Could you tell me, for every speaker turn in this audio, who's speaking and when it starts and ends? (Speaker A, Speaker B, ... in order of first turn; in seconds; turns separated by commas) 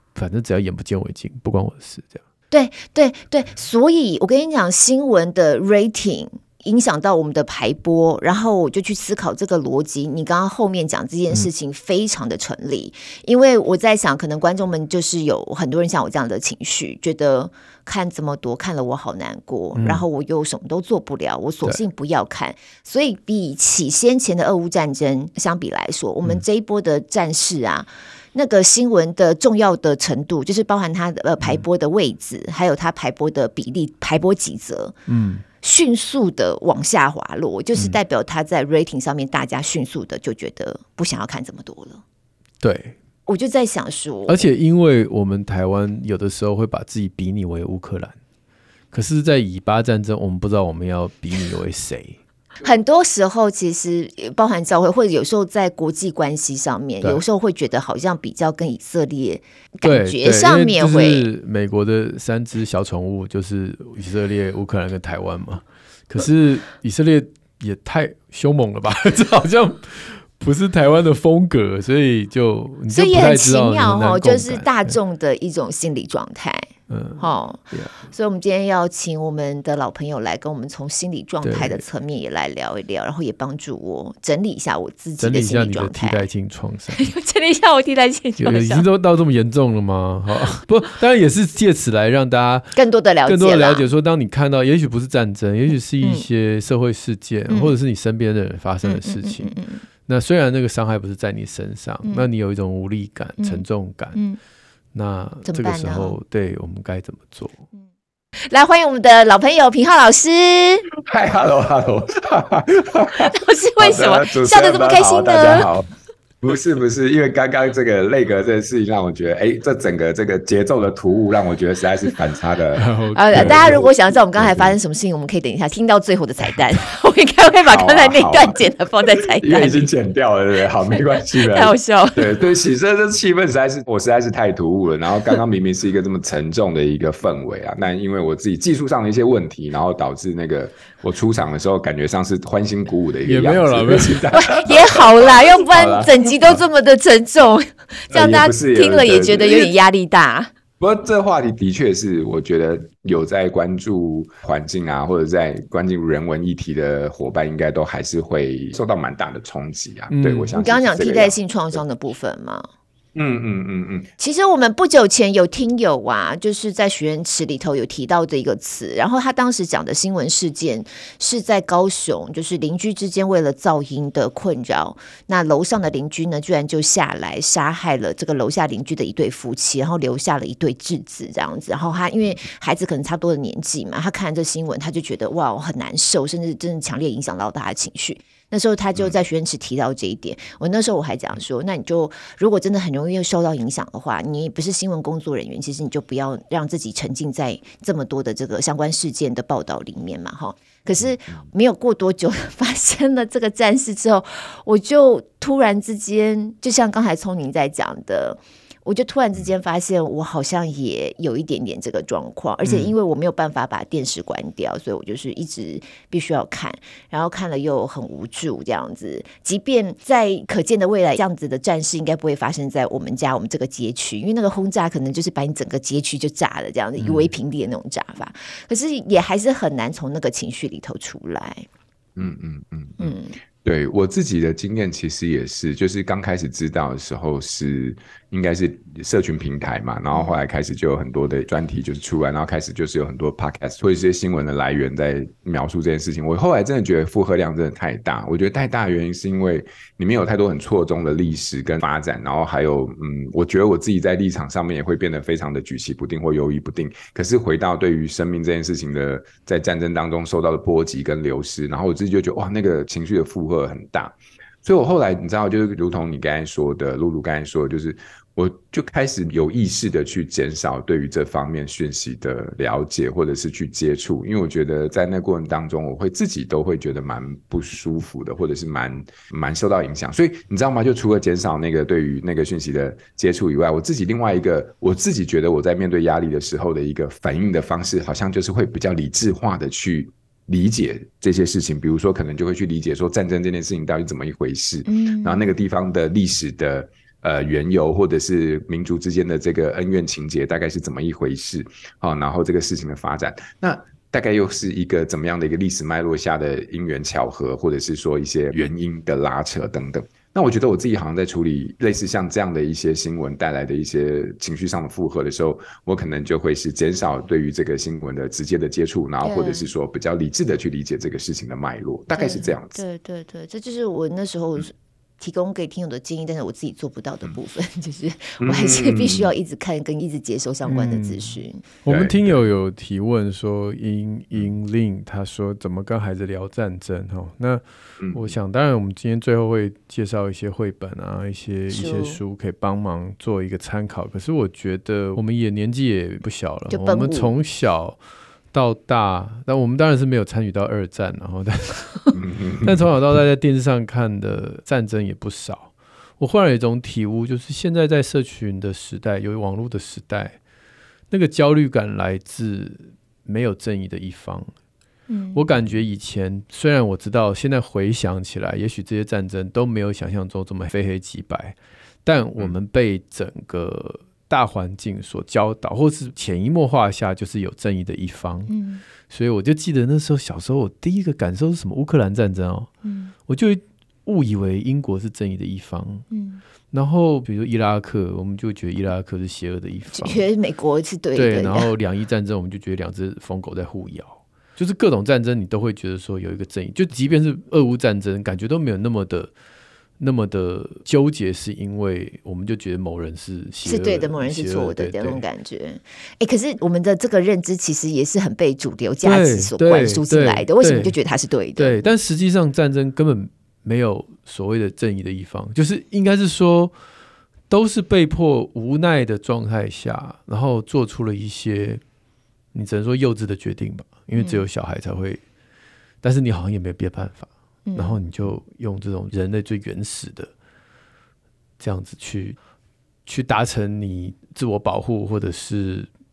Speaker A: 0.1-2.2, Speaker B: 2.5-35.0, Speaker A: 19.8-20.0, Speaker A: 35.1-35.4, Speaker B: 35.6-42.0, Speaker A: 42.6-43.0, Speaker B: 43.3-44.4, Speaker A: 44.3-48.1, Speaker A: 48.9-52.2, Speaker B: 52.6-61.3, Speaker A: 59.8-75.0, Speaker B: 72.9-86.3, Speaker A: 76.9-78.1, Speaker A: 81.4-81.8, Speaker A: 85.2-87.0, Speaker B: 86.9-88.9, Speaker A: 88.4-104.2, Speaker B: 92.7-93.8, Speaker B: 96.0-96.2, Speaker B: 97.5-97.7, Speaker B: 98.8-99.8, Speaker B: 103.4-103.6, Speaker A: 104.9-107.6, Speaker B: 105.4-106.2, Speaker B: 108.5-110.9, Speaker C: 110.9-115.9, Speaker B: 113.2-115.7, Speaker C: 116.4-124.8, Speaker A: 122.8-123.9, Speaker B: 123.1-129.9, Speaker C: 127.7-128.6, Speaker C: 129.3-146.6, Speaker B: 130.9-132.4, Speaker A: 143.2-144.2, Speaker B: 144.3-150.5, Speaker C: 148.1-149.7, Speaker C: 150.8-161.8, Speaker A: 160.1-160.5, Speaker B: 160.5-162.7, Speaker C: 163.1-164.1, Speaker B: 164.2-231.7, Speaker C: 201.0-201.4, Speaker A: 227.0-227.3, Speaker C: 232.2-322.8, Speaker B: 233.0-233.4, Speaker B: 240.1-240.4, Speaker B: 294.9-295.4, Speaker B: 319.2-319.7, Speaker B: 322.1-331.6, Speaker C: 328.4-329.3, Speaker A: 330.6-331.3, Speaker A: 331.8-348.0, Speaker C: 331.9-332.4, Speaker C: 338.0-338.4, Speaker B: 341.7-342.2, Speaker B: 346.7-347.4, Speaker A: 348.5-360.4, Speaker C: 352.1-352.9, Speaker A: 361.1-364.5, Speaker B: 365.1-365.4, Speaker A: 365.3-378.5, Speaker B: 378.5-378.8, Speaker A: 379.1-382.7, Speaker B: 382.8-383.1, Speaker A: 383.3-386.1, Speaker B: 386.1-386.4, Speaker A: 386.7-390.2, Speaker B: 389.9-391.7, Speaker A: 391.1-399.3, Speaker A: 400.0-405.2, Speaker B: 403.6-411.8, Speaker A: 409.0-411.0, Speaker A: 411.6-416.7, Speaker A: 417.5-421.8, Speaker A: 422.5-425.2, Speaker B: 424.1-424.4, Speaker A: 426.0-430.3, Speaker B: 427.7-428.0, Speaker A: 431.6-432.4, Speaker A: 433.1-435.9